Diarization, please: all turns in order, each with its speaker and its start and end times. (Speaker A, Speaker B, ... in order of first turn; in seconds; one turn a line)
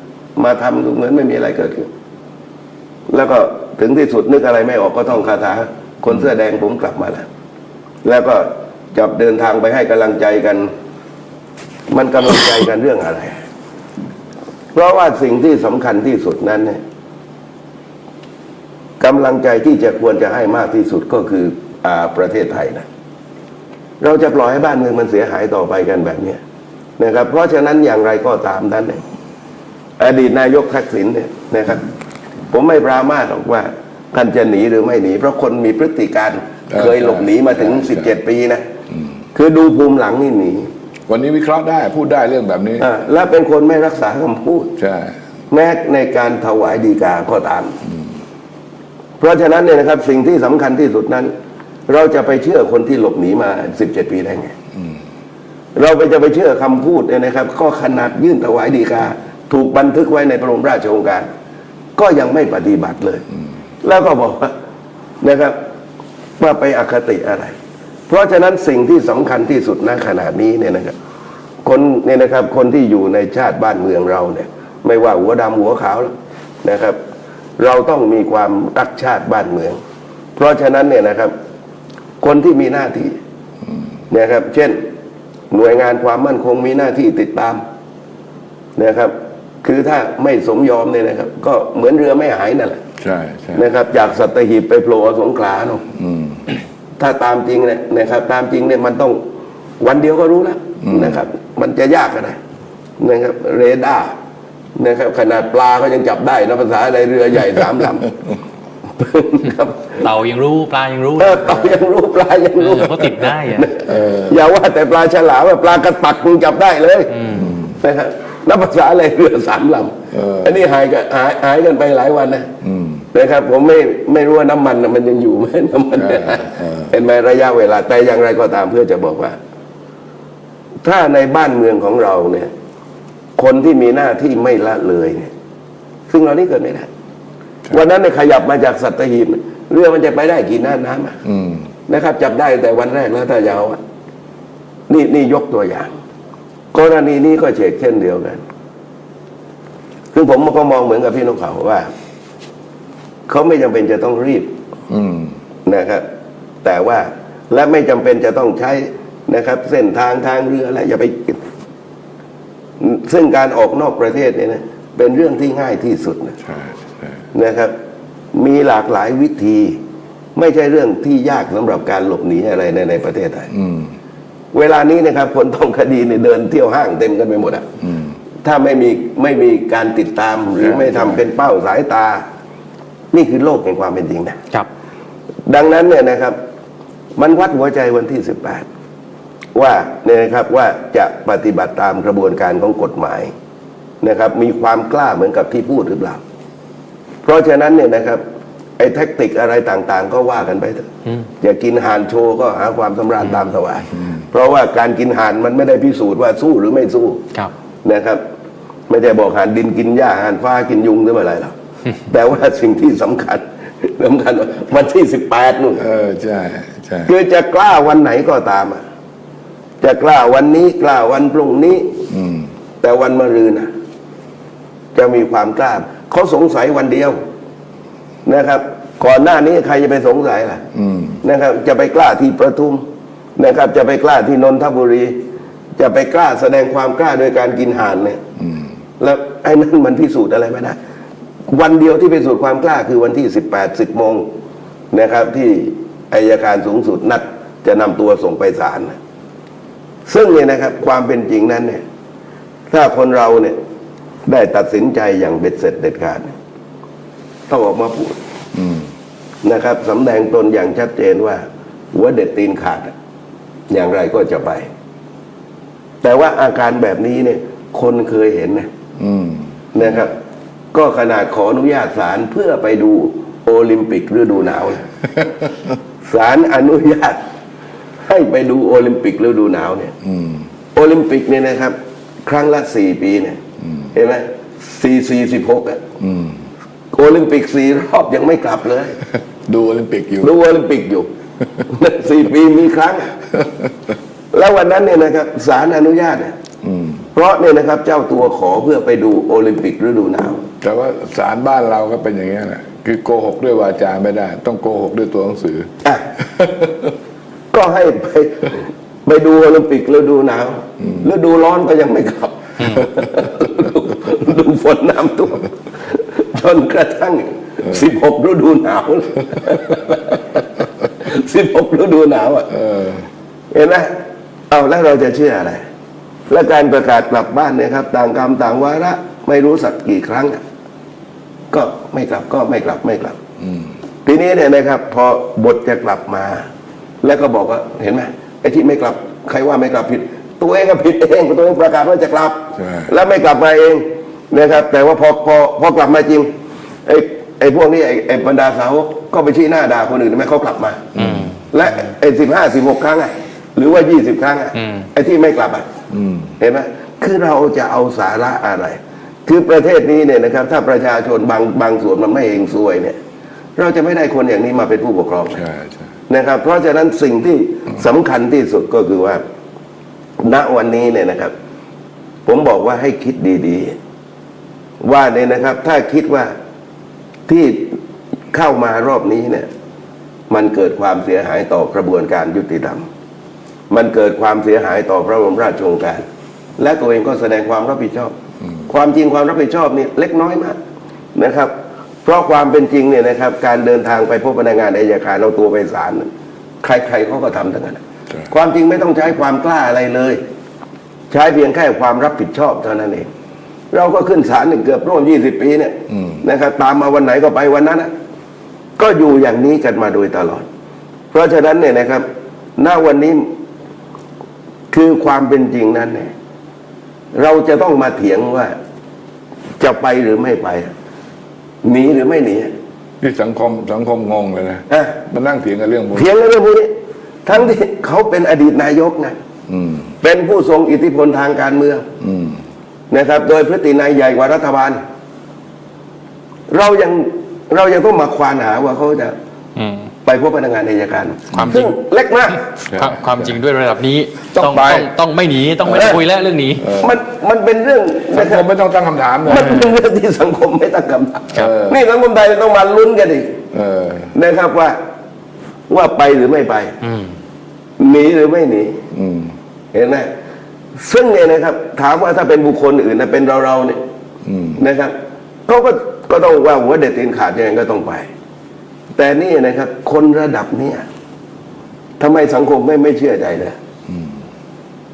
Speaker A: 0.4-1.9
Speaker A: 3.1-7.2
Speaker A: 8.0-10.7
Speaker A: 11.9-13.4
Speaker A: 14.7-16.8
Speaker A: 19.0-22.9
Speaker A: 24.0-26.4
Speaker A: 27.0-29.0
Speaker A: 30.0-31.9
Speaker A: 32.5-38.6
Speaker B: 36.7-38.2
Speaker A: 39.4-40.7
Speaker B: 41.1-42.9
Speaker A: 42.8-44.7
Speaker B: 44.8-45.1
Speaker A: 45.5-47.8
Speaker A: 49.2-51.3
Speaker A: 51.9-54.5
Speaker A: 55.8-61.3
Speaker A: 62.0-63.2
Speaker A: 63.8-64.5
Speaker A: 65.2-65.6
Speaker A: 66.4-67.5
Speaker A: 68.1-71.0
Speaker A: 71.6-76.1
Speaker A: 76.6-77.0
Speaker A: 77.6-79.8
Speaker A: 80.4-81.3
Speaker A: 82.2-83.2
Speaker A: 84.1-84.8
Speaker A: 85.5-87.6
Speaker A: 88.8-92.8
Speaker B: 93.0-93.7
Speaker A: 93.5-95.8
Speaker B: 96.0-96.4
Speaker A: 97.0-99.2
Speaker A: 99.8-102.4
Speaker B: 100.8-101.2
Speaker A: 103.0-104.1
Speaker A: 104.8-108.1
Speaker A: 109.0-110.0
Speaker C: 110.0-111.8
Speaker A: 111.2-122.5
Speaker C: 112.6-113.7
Speaker B: 113.9-114.4
Speaker B: 117.3-117.8
Speaker B: 120.1-120.6
Speaker B: 122.6-123.0
Speaker A: 123.1-129.4
Speaker B: 126.0-126.9
Speaker A: 130.8-132.5
Speaker A: 133.4-135.3
Speaker A: 136.1-136.9
Speaker A: 137.7-141.2
Speaker B: 141.2-141.7
Speaker A: 141.9-143.8
Speaker A: 144.9-145.9
Speaker A: 146.7-148.4
Speaker A: 150.1-151.9
Speaker A: 153.3-154.5
Speaker B: 154.9-155.3
Speaker A: 155.7-156.0
Speaker A: 156.6-161.4
Speaker A: 162.8-166.4
Speaker B: 166.4-167.2
Speaker A: 167.3-167.7
Speaker A: 168.3-169.8
Speaker A: 170.4-173.5
Speaker B: 173.5-173.9
Speaker A: 174.5-177.7
Speaker B: 177.8-178.1
Speaker A: 178.4-182.2
Speaker B: 180.6-181.2
Speaker A: 183.1-184.4
Speaker A: 185.5-186.4
Speaker A: 187.2-188.7
Speaker A: 189.5-193.3
Speaker A: 194.0-196.2
Speaker A: 197.2-198.2
Speaker A: 198.8-200.9
Speaker A: 201.4-207.2
Speaker A: 207.8-208.2
Speaker A: 208.9-211.5
Speaker A: 212.1-215.8
Speaker B: 215.8-217.1
Speaker A: 217.1-218.8
Speaker A: 219.8-222.0
Speaker B: 222.1-222.5
Speaker A: 222.8-223.7
Speaker A: 224.9-227.2
Speaker A: 228.2-230.6
Speaker B: 230.7-231.2
Speaker A: 231.2-232.8
Speaker A: 233.4-235.2
Speaker A: 235.8-238.2
Speaker B: 238.4-238.7
Speaker A: 239.0-240.8
Speaker A: 241.5-244.3
Speaker A: 244.9-249.0
Speaker A: 250.1-251.8
Speaker A: 252.7-253.6
Speaker A: 254.3-256.4
Speaker A: 257.5-258.2
Speaker B: 258.6-258.9
Speaker A: 259.4-262.9
Speaker A: 263.7-264.7
Speaker A: 266.0-268.7
Speaker B: 269.0-270.0
Speaker A: 269.8-270.1
Speaker A: 270.7-274.8
Speaker A: 276.1-277.2
Speaker A: 278.0-279.9
Speaker B: 280.0-280.5
Speaker A: 280.8-283.4
Speaker A: 283.9-285.8
Speaker B: 286.0-286.4
Speaker A: 286.9-288.9
Speaker B: 289.5-290.3
Speaker A: 290.2-291.1
Speaker A: 291.7-293.1
Speaker A: 294.3-296.3
Speaker B: 296.6-297.1
Speaker A: 297.1-300.4
Speaker B: 300.6-305.7
Speaker B: 306.3-306.9
Speaker A: 307.5-320.4
Speaker A: 321.0-322.5
Speaker B: 322.5-323.0
Speaker A: 323.5-323.9
Speaker A: 324.5-325.6
Speaker A: 326.3-330.4
Speaker A: 331.5-333.2
Speaker B: 333.4-333.7
Speaker A: 334.1-336.5
Speaker A: 337.0-346.3
Speaker B: 342.6-342.9
Speaker A: 346.9-350.8
Speaker B: 350.9-351.3
Speaker A: 351.5-355.7
Speaker B: 355.9-356.3
Speaker A: 356.4-363.0
Speaker A: 363.6-365.4
Speaker B: 365.4-365.9
Speaker A: 366.1-369.2
Speaker A: 370.2-371.3
Speaker A: 372.3-373.8
Speaker A: 374.8-376.3
Speaker A: 377.3-377.8
Speaker A: 378.3-379.5
Speaker A: 380.3-382.9
Speaker A: 383.7-386.0
Speaker A: 386.6-388.1
Speaker A: 388.7-390.6
Speaker A: 391.1-391.5
Speaker A: 392.1-396.1
Speaker A: 396.6-400.2
Speaker A: 401.1-403.1
Speaker A: 403.7-407.9
Speaker B: 405.9-406.2
Speaker A: 408.8-410.4
Speaker A: 411.1-412.1
Speaker A: 412.6-413.3
Speaker A: 414.7-416.1
Speaker A: 417.1-418.5
Speaker A: 419.6-420.7
Speaker A: 421.6-422.5
Speaker B: 423.0-426.1
Speaker A: 424.7-425.0
Speaker A: 425.9-426.7
Speaker A: 427.3-429.1
Speaker B: 429.5-429.9
Speaker A: 430.0-431.9
Speaker B: 432.0-432.4
Speaker A: 432.9-434.8
Speaker A: 436.5-439.1
Speaker C: 439.6-439.9
Speaker A: 440.1-442.6
Speaker B: 441.3-441.6
Speaker B: 442.7-443.3
Speaker C: 442.7-446.7
Speaker A: 444.3-444.9
Speaker A: 445.7-446.0
Speaker B: 446.6-447.0
Speaker A: 446.7-448.5
Speaker B: 448.1-449.7
Speaker A: 449.2-453.4
Speaker B: 451.3-451.8
Speaker B: 453.5-454.1
Speaker A: 454.1-454.8
Speaker A: 455.7-456.8
Speaker A: 457.8-458.8
Speaker B: 458.9-459.3
Speaker A: 459.7-460.1
Speaker A: 460.8-463.8
Speaker B: 464.2-464.6
Speaker A: 464.6-464.9
Speaker A: 465.5-468.1
Speaker A: 469.0-470.8
Speaker A: 472.0-473.6